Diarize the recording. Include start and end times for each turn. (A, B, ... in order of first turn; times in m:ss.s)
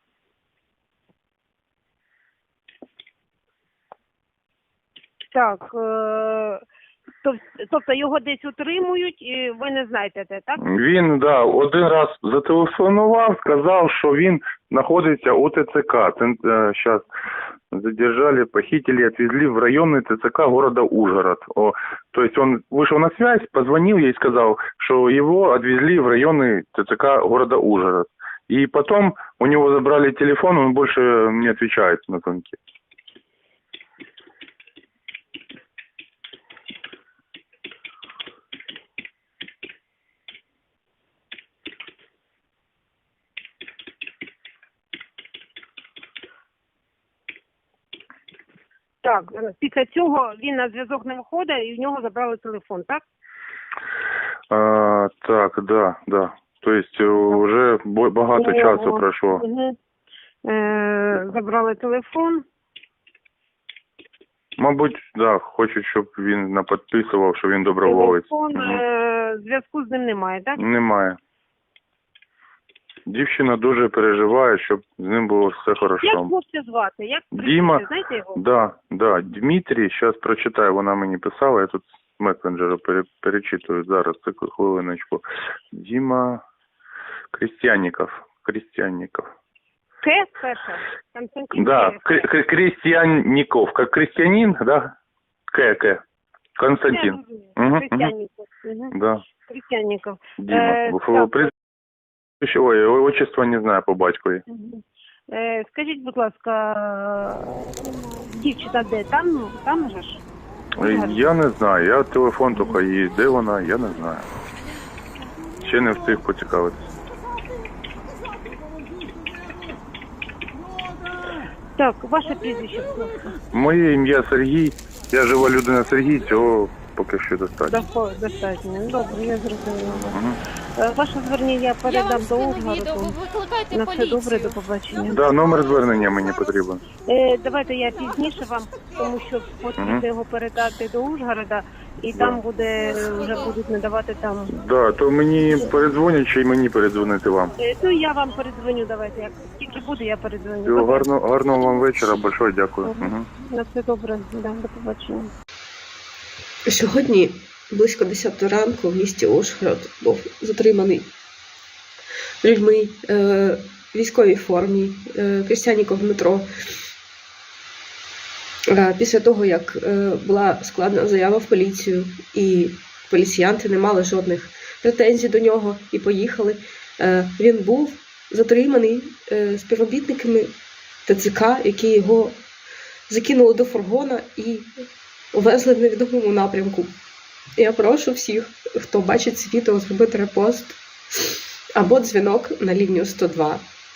0:05.3-0:06.6 A
0:07.2-0:10.6 A
0:10.6-0:17.0 B
0:17.7-0:32.6 B
0:49.0-0:53.0 A
0:54.5-0:59.4 B
0:58.4-0:59.8 A
1:00.4-1:02.4 A
1:04.6-1:08.8 B
1:07.8-1:10.6 A
1:10.6-1:11.2 B
1:13.1-1:16.3 B
1:16.0-1:18.4 A
1:17.3-1:26.4 B
1:27.3-1:29.3 B
1:30.0-1:32.2 A
1:31.5-1:34.9 B
1:35.5-1:36.0 B
1:36.6-1:38.1 B
1:36.9-1:38.9 A
1:38.9-1:39.2 B
1:39.4-1:41.5 A
1:40.4-1:41.5 B
1:42.4-1:44.4 B
1:44.5-1:50.2 A
1:50.8-1:54.3 B
1:50.8-1:51.2 A
1:55.6-1:56.8 B
2:01.8-2:03.3 A
2:03.5-2:07.8 B
2:07.6-2:10.2 A
2:10.1-2:10.4 B
2:10.8-2:13.2 A
2:11.8-2:14.5 C
2:13.7-2:15.2 A
2:15.1-2:16.8 B
2:17.1-2:24.5 A
2:19.8-2:20.0 B
2:22.1-2:22.4 B
2:24.5-2:27.5 B
2:27.6-2:31.1 A
2:30.6-2:33.3 B
2:32.8-2:35.3 A
2:36.7-2:41.1 D
2:42.4-2:46.5 D
2:48.7-3:00.5 D
3:01.0-3:02.4 D
3:03.1-3:04.7 D
3:05.3-3:06.9 D
3:07.6-3:13.6 D